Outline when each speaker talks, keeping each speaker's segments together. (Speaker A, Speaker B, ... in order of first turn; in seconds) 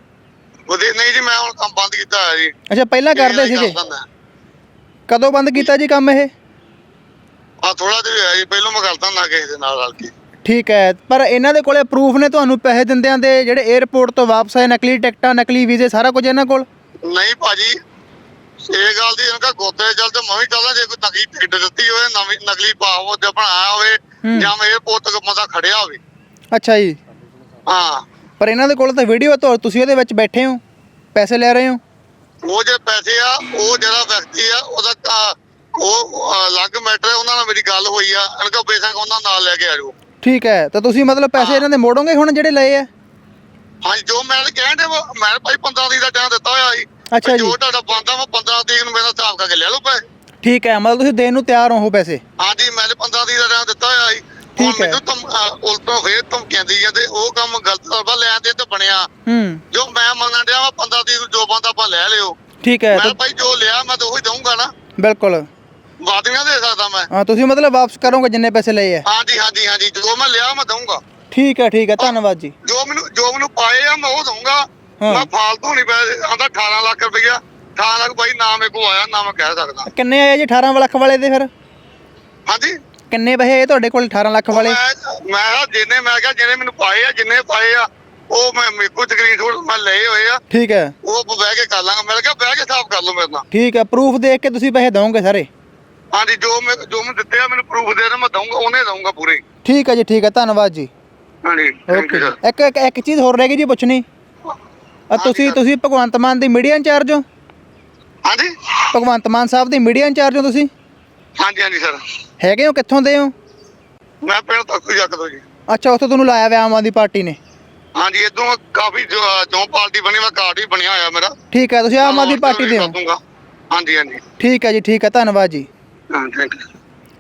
Speaker A: 0.7-2.5, 3.1-4.0, 7.6-10.1, 17.1-17.7, 18.7-26.0, 27.7-28.0, 32.5-35.2, 35.8-39.9, 41.4-41.6, 43.8-50.0, 52.4-59.1, 59.7-62.4, 63.0-64.7, 66.0-67.1, 69.1-71.0, 72.7-79.9, 82.5-82.7, 84.5-90.4, 91.0-93.4, 96.1-99.4, 101.5-102.3, 105.2-105.6, 111.4-112.0, 114.3-115.4, 118.0-121.3, 122.0-123.2, 123.7-124.2, 126.1-126.6
Speaker B: 2.7-3.8, 5.1-6.3, 10.4-16.7, 24.3-24.5, 26.5-27.0, 28.4-30.6, 31.1-31.8, 40.2-42.9, 47.1-47.6, 50.4-52.2, 54.6-55.0, 59.3-59.6, 62.6-63.1, 65.0-65.5, 67.1-69.0, 71.3-72.5, 75.0-75.3, 79.9-81.5, 83.1-84.8, 90.5-90.9, 93.5-95.5, 99.7-100.9, 101.9-104.0, 105.1-107.2, 108.9-110.7, 112.4-113.3, 115.7-117.4, 121.5-122.9, 124.4-125.7